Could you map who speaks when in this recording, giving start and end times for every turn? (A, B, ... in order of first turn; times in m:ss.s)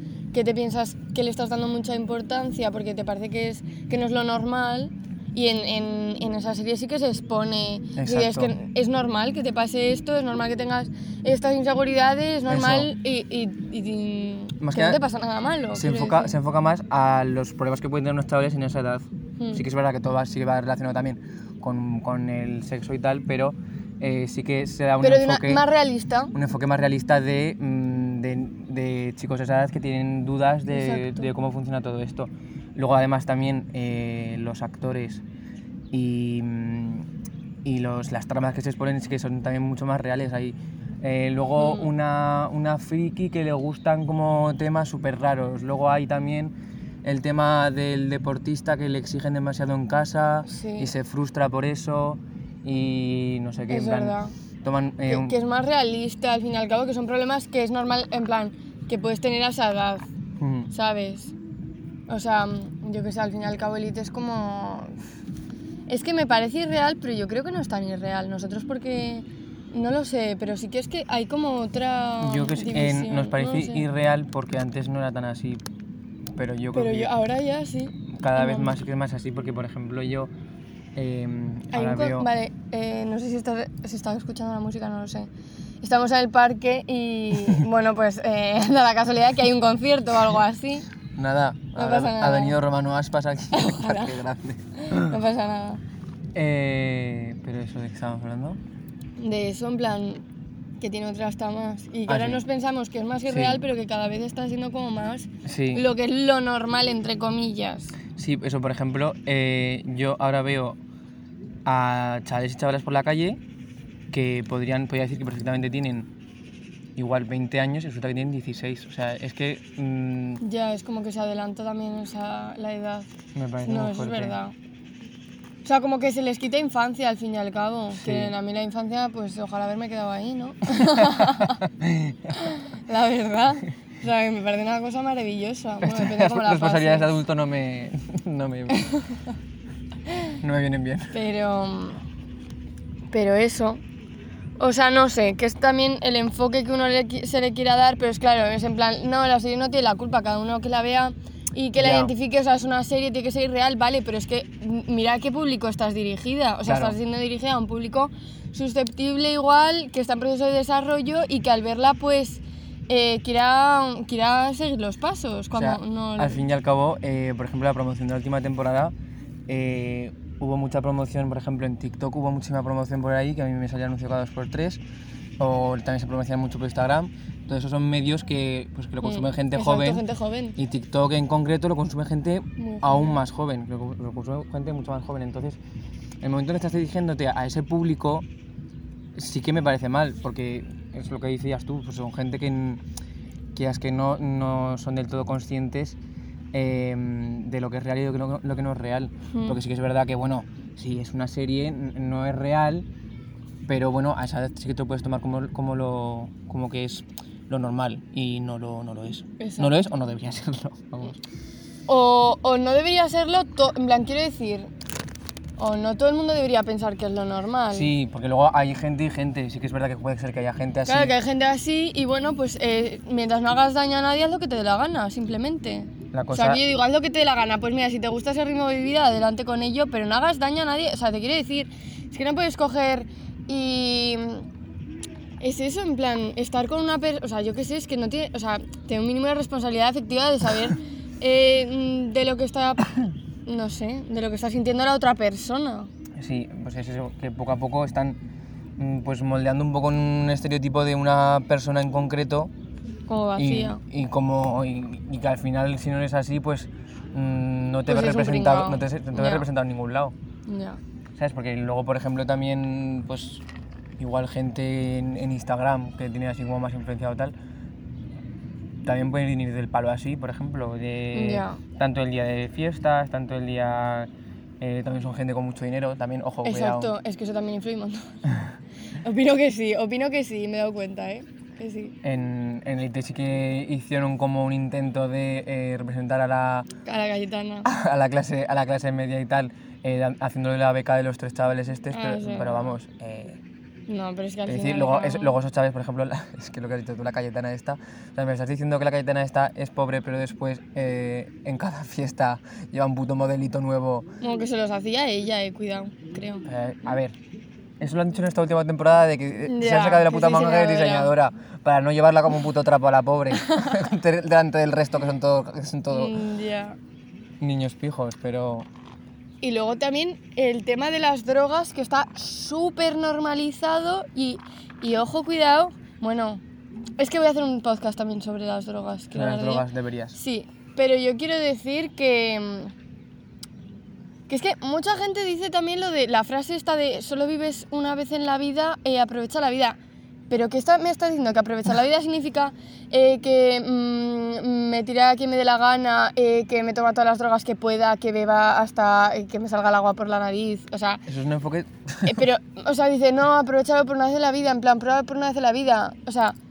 0:00.3-0:16.3 A
0:08.0-0:08.5 B
0:12.5-0:12.9 B
0:14.6-0:15.0 B
0:15.8-0:25.6 B
0:25.0-0:26.3 A
0:26.3-0:35.2 B
0:30.7-0:31.3 A
0:35.9-0:37.1 B
0:37.6-0:46.5 B
0:41.6-0:41.9 A
0:47.0-0:55.4 B
0:50.5-0:50.9 A
0:53.7-0:54.4 A
0:55.1-1:00.1 A
1:00.4-1:00.7 B
1:00.7-1:01.3 A
1:02.1-1:05.0 A
1:05.9-1:13.8 A
1:12.2-1:15.6 B
1:16.4-1:17.1 B
1:16.7-1:18.8 A
1:18.2-1:20.3 B
1:21.0-1:22.3 B
1:21.7-1:25.3 A
1:25.8-1:30.9 A
1:31.2-1:35.2 B
1:31.8-1:32.6 A
1:33.5-1:34.2 A
1:34.8-1:35.8 A
1:36.4-1:38.6 B
1:39.2-1:40.2 A
1:40.8-1:48.0 A
1:42.1-1:42.4 B
1:43.3-1:43.6 B
1:45.4-1:45.9 B
1:48.2-1:50.8 B
1:51.6-1:53.4 B
1:54.1-1:56.1 B
1:57.0-2:00.4 B
2:00.4-2:03.1 A
2:03.4-2:04.4 B
2:03.6-2:04.5 A
2:05.6-2:11.6 A
2:08.0-2:08.3 B
2:10.7-2:12.5 B
2:12.3-2:17.1 A
2:15.8-2:18.9 B
2:18.7-2:19.1 A
2:20.4-2:21.2 B
2:21.1-2:22.0 A
2:23.1-2:23.8 A
2:24.6-2:46.4 A
2:31.8-2:32.1 B
2:36.6-2:37.0 B
2:45.5-2:48.9 B
2:49.5-2:54.8 B
2:55.4-3:00.0 B
2:59.0-3:00.6 A
3:00.6-3:05.6 B
3:02.6-3:03.2 A
3:06.2-3:08.3 B
3:09.2-3:12.8 B
3:13.6-3:16.0 B
3:16.5-3:22.8 B
3:19.3-3:19.6 A
3:23.7-3:31.2 B
3:29.4-3:29.7 A
3:31.9-3:34.7 A
3:35.6-3:37.9 A
3:37.7-3:41.2 B
3:40.9-3:54.5 A
3:46.1-3:46.6 B
3:55.4-4:05.9 A
4:06.2-4:08.2 B
4:08.8-4:12.5 B
4:13.1-4:13.8 A
4:13.4-4:20.1 B
4:17.9-4:19.5 A
4:20.5-4:20.8 A
4:21.2-4:23.4 B
4:24.0-4:27.3 B
4:28.8-4:36.9 B
4:31.1-4:31.6 A
4:36.4-4:38.1 A
4:39.0-4:42.0 A
4:42.0-4:46.7 B
4:46.8-4:47.7 A
4:47.6-4:53.4 B
4:51.9-4:52.8 A
4:53.9-4:55.4 A
4:54.5-5:04.1 B
5:04.2-5:06.5 A
5:06.5-5:07.2 B
5:07.8-5:16.2 B
5:09.5-5:11.1 A
5:13.4-5:13.9 A
5:15.9-5:16.8 A
5:17.4-5:18.7 B
5:19.4-5:26.4 A
5:27.0-5:32.7 A
5:29.1-5:30.2 B
5:34.3-5:39.8 A
5:40.3-5:51.0 A
5:51.1-5:52.2 B
5:52.0-5:56.4 A